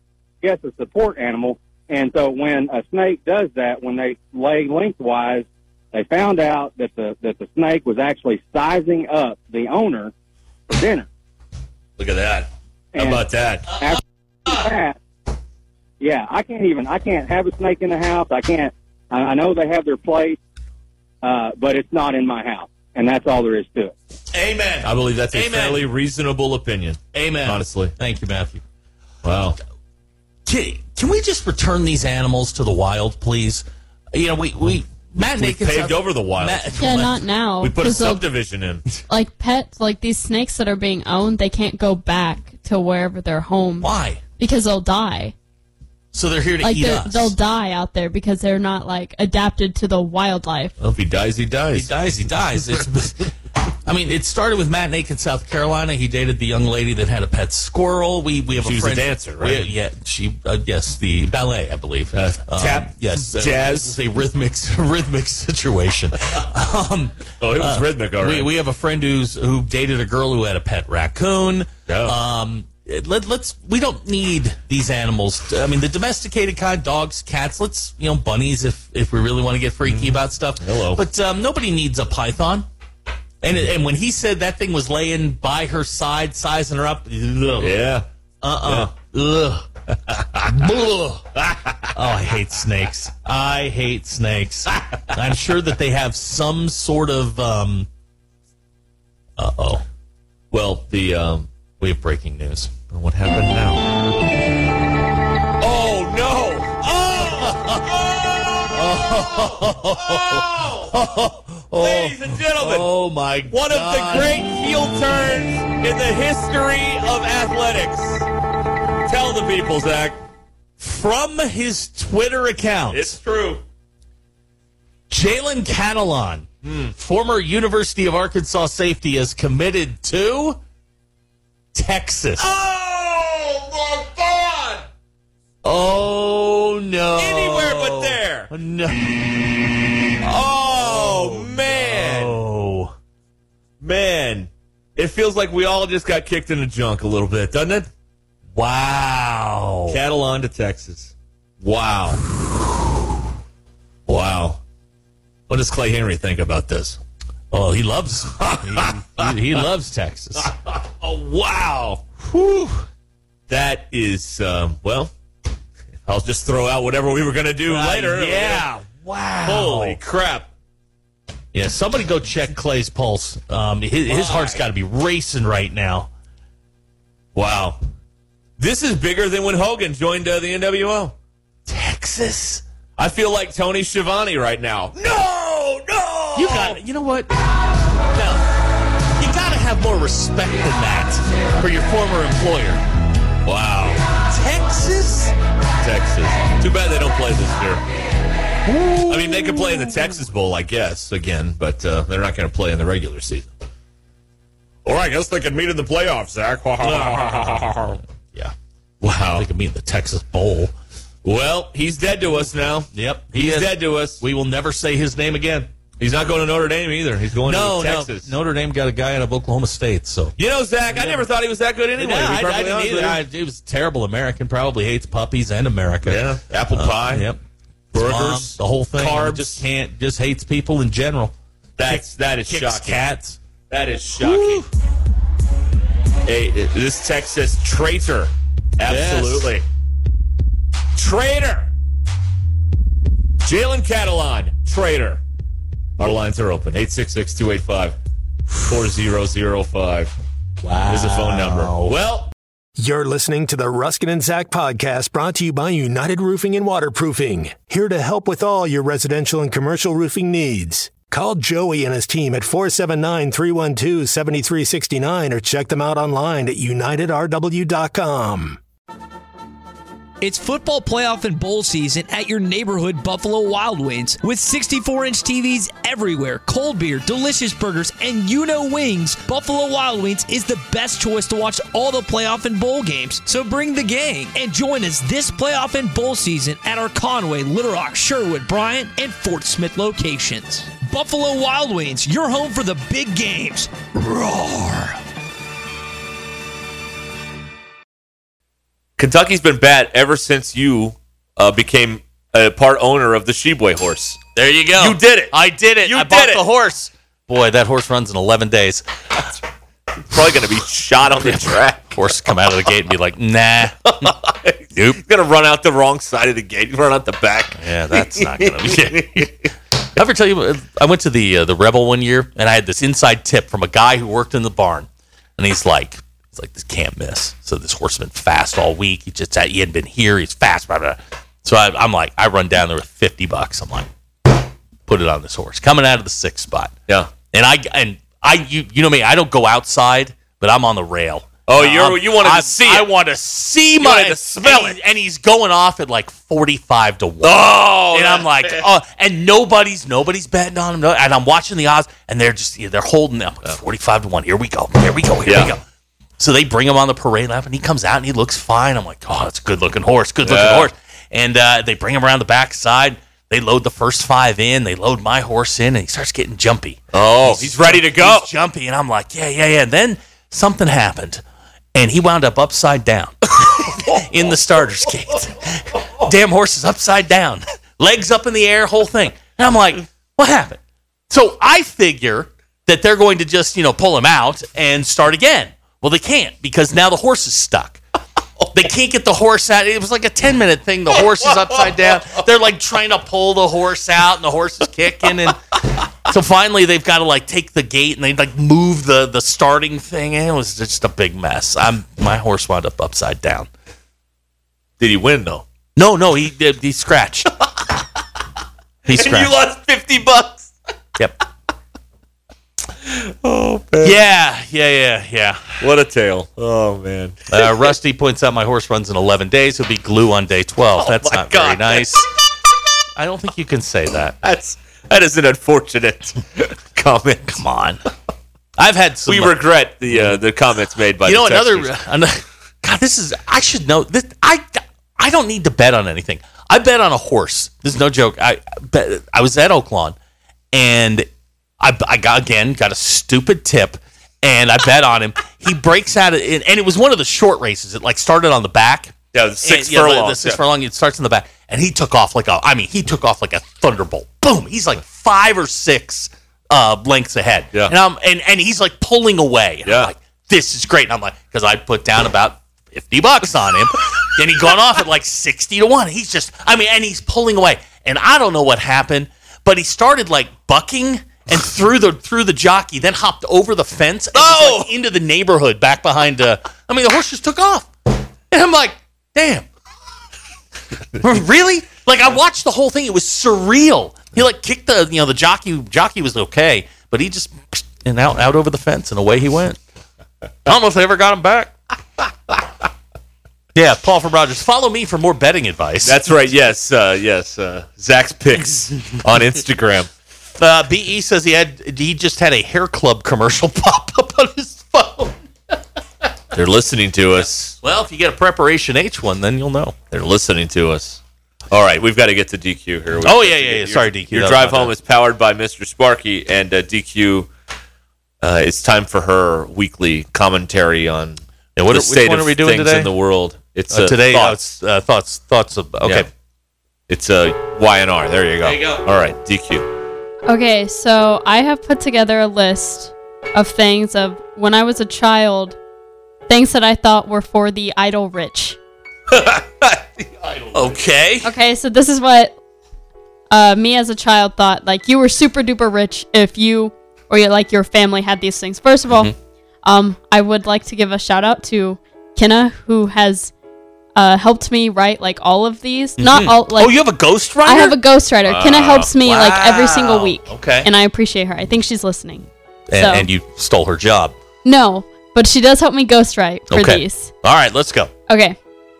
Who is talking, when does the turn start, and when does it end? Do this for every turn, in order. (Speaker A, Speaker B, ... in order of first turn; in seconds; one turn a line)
Speaker A: 0.4-10.1
Speaker A: 10.7-11.1
Speaker B: 12.0-13.8
Speaker A: 12.9-15.0
Speaker A: 16.0-20.4
Speaker A: 21.2-23.9
Speaker C: 24.3-25.9
Speaker B: 24.8-27.9
Speaker C: 27.1-28.6
Speaker B: 29.2-29.6
Speaker C: 30.4-37.2
Speaker B: 35.2-36.8
Speaker D: 36.8-38.2
Speaker B: 37.6-38.9
Speaker D: 39.1-45.3
Speaker C: 43.8-44.2
Speaker C: 46.1-47.3
Speaker D: 46.6-50.7
Speaker B: 50.8-51.9
Speaker C: 51.7-53.3
Speaker C: 53.8-82.7
Speaker B: 58.5-59.6
Speaker B: 62.1-64.0
Speaker B: 67.4-68.5
Speaker B: 71.9-72.2
Speaker B: 79.8-81.0
Speaker C: 83.4-87.7
Speaker B: 87.6-88.0
Speaker C: 88.4-89.7
Speaker B: 88.6-88.9
Speaker B: 90.1-90.5
Speaker C: 90.5-91.2
Speaker B: 91.4-91.9
Speaker C: 91.9-97.9
Speaker C: 99.4-99.8
Speaker B: 100.5-101.5
Speaker C: 101.8-102.7
Speaker B: 102.9-103.9
Speaker B: 105.6-111.0
Speaker C: 107.2-107.9
Speaker C: 108.7-114.3
Speaker B: 111.7-112.9
Speaker B: 113.5-118.3
Speaker B: 119.0-120.2
Speaker C: 120.8-123.2
Speaker B: 122.9-123.6
Speaker C: 125.1-130.6
Speaker B: 126.6-126.9
Speaker C: 131.7-132.5
Speaker B: 132.4-134.8
Speaker C: 135.6-139.5
Speaker B: 137.2-138.5
Speaker B: 140.2-142.4
Speaker C: 140.7-142.9
Speaker B: 143.8-147.9
Speaker C: 148.6-150.0
Speaker B: 149.9-152.2
Speaker B: 154.1-154.6
Speaker B: 155.5-157.0
Speaker C: 157.5-160.5
Speaker B: 158.4-159.3
Speaker B: 160.4-162.0
Speaker C: 162.3-162.8
Speaker B: 163.5-165.1
Speaker B: 166.1-168.7
Speaker C: 167.7-170.0
Speaker B: 169.4-170.5
Speaker C: 171.5-176.1
Speaker B: 174.1-174.6
Speaker B: 177.3-177.8
Speaker B: 178.6-181.1
Speaker C: 181.7-182.6
Speaker B: 183.0-186.8
Speaker C: 186.3-187.3
Speaker C: 188.1-188.4
Speaker C: 189.2-192.8
Speaker B: 193.4-194.0
Speaker C: 194.3-195.3
Speaker B: 195.8-197.8
Speaker C: 198.7-200.2
Speaker B: 199.0-203.5
Speaker B: 204.8-208.0
Speaker C: 206.8-208.5
Speaker B: 209.0-209.5
Speaker C: 209.3-210.7
Speaker B: 211.2-214.2
Speaker C: 212.9-215.7
Speaker B: 216.0-218.3
Speaker C: 217.4-220.3
Speaker B: 220.4-223.2
Speaker C: 220.9-221.3
Speaker C: 222.0-227.4
Speaker B: 226.0-227.3
Speaker B: 227.9-229.6
Speaker C: 227.9-231.3
Speaker B: 231.8-233.1
Speaker C: 231.8-233.4
Speaker B: 233.7-234.7
Speaker C: 234.2-234.7
Speaker B: 236.2-239.6
Speaker C: 238.8-239.5
Speaker B: 240.9-241.7
Speaker B: 243.4-245.2
Speaker B: 246.0-247.9
Speaker B: 248.6-250.1
Speaker C: 250.6-251.9
Speaker B: 250.9-252.3
Speaker E: 252.8-268.6
Speaker F: 270.2-294.7
Speaker C: 294.2-294.6
Speaker B: 299.0-304.2
Speaker C: 304.4-308.8
Speaker B: 304.7-306.4
Speaker B: 310.1-312.0
Speaker C: 311.9-314.1
Speaker B: 314.0-319.3
Speaker C: 314.7-315.0
Speaker C: 317.5-319.3
Speaker C: 319.9-333.9
Speaker C: 334.9-336.7
Speaker C: 337.3-355.6
Speaker B: 341.5-342.9
Speaker B: 343.8-344.8
Speaker B: 347.2-348.7
Speaker B: 355.2-355.5
Speaker C: 356.2-371.2
Speaker B: 360.2-360.7
Speaker B: 366.9-368.3
Speaker C: 371.7-387.8
Speaker C: 388.5-395.4
Speaker B: 391.2-392.0
Speaker C: 396.1-403.5
Speaker B: 404.8-405.4
Speaker C: 405.8-407.3
Speaker C: 408.9-409.3
Speaker B: 408.9-410.5
Speaker B: 412.9-414.0
Speaker C: 413.8-415.6
Speaker B: 415.6-417.7
Speaker C: 417.3-422.1
Speaker B: 420.8-422.0
Speaker C: 422.9-424.1
Speaker B: 424.2-427.4
Speaker C: 427.3-427.8
Speaker C: 428.6-429.4
Speaker B: 429.1-431.7
Speaker C: 431.0-439.9
Speaker C: 440.5-441.1
Speaker C: 441.6-477.7
Speaker B: 449.1-450.4
Speaker B: 459.6-459.9
Speaker B: 474.1-474.7
Speaker C: 478.3-479.4
Speaker C: 481.0-489.6
Speaker C: 490.4-491.5
Speaker C: 493.5-496.0
Speaker B: 495.8-499.9
Speaker C: 500.4-505.1
Speaker B: 506.3-507.6
Speaker C: 507.6-509.8
Speaker B: 509.9-517.3
Speaker C: 513.0-514.7
Speaker B: 518.2-524.5
Speaker C: 521.5-522.9
Speaker C: 523.7-526.1
Speaker B: 526.9-529.7
Speaker C: 528.4-528.8
Speaker D: 530.2-535.5
Speaker D: 536.3-538.6
Speaker B: 539.1-540.8
Speaker C: 540.5-541.3
Speaker D: 541.2-542.3
Speaker D: 543.3-549.1
Speaker D: 549.6-553.3
Speaker D: 554.0-556.7
Speaker C: 556.0-557.7
Speaker D: 557.4-562.2
Speaker B: 558.2-558.9
Speaker C: 559.0-560.7
Speaker C: 562.7-564.1
Speaker D: 562.8-563.1
Speaker D: 564.4-567.1
Speaker C: 566.5-567.9
Speaker D: 568.1-568.4